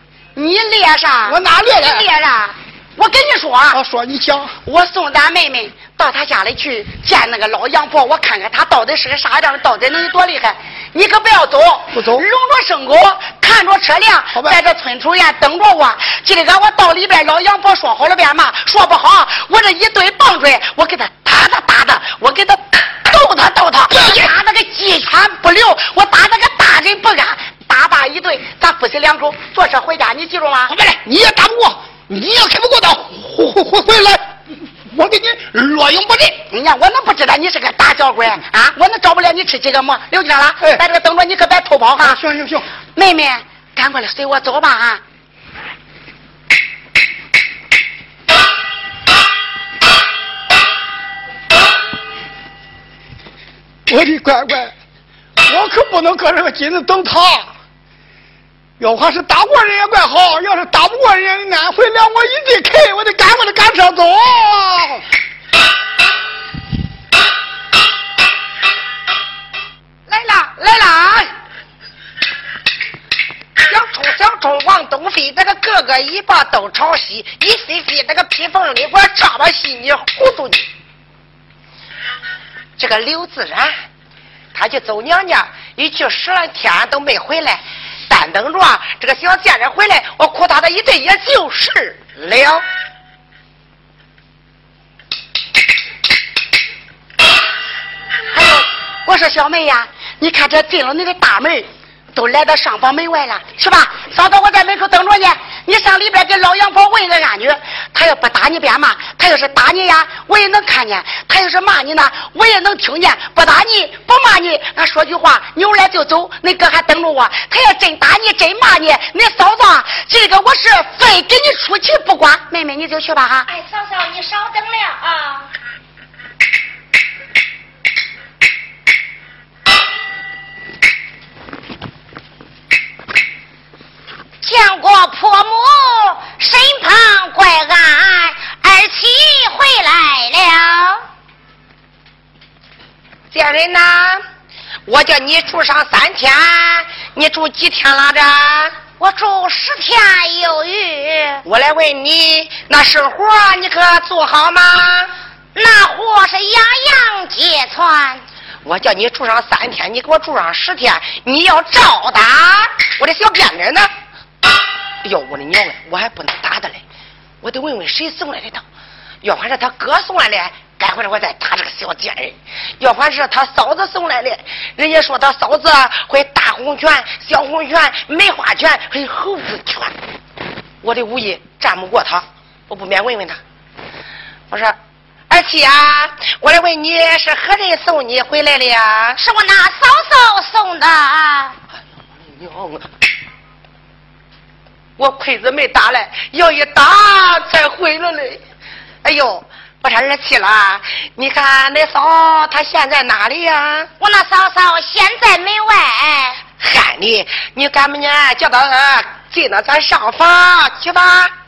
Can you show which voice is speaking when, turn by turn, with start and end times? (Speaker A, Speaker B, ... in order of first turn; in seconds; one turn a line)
Speaker A: 0.3-3.8
Speaker B: 1.2-2.0
Speaker B: 3.7-4.5
Speaker A: 4.6-30.7
Speaker B: 11.9-12.2
Speaker B: 23.9-24.3
Speaker B: 30.7-34.2
Speaker B: 34.9-36.4
Speaker A: 36.5-42.2
Speaker B: 42.0-42.6
Speaker A: 42.9-45.0
Speaker B: 53.9-54.7
Speaker B: 55.4-57.5
Speaker B: 58.8-65.0
Speaker C: 70.1-71.3
Speaker C: 73.6-80.6
Speaker C: 82.8-83.7
Speaker C: 84.5-92.6
Speaker A: 98.3-123.5
Speaker D: 123.5-125.5
Speaker D: 134.4-141.1
Speaker C: 143.3-144.2
Speaker C: 144.8-148.7
Speaker D: 149.0-151.4
Speaker C: 151.4-155.1
Speaker D: 155.5-158.2
Speaker C: 158.6-163.9
Speaker C: 165.0-166.8
Speaker C: 167.4-168.6
Speaker C: 169.2-179.9
Speaker C: 180.8-183.4
Speaker C: 184.5-184.8
Speaker C: 185.3-189.2
Speaker D: 189.2-191.6
Speaker C: 192.3-192.8
Speaker C: 195.0-198.4
Speaker C: 199.0-203.9
Speaker D: 204.0-206.4
Speaker C: 206.6-211.3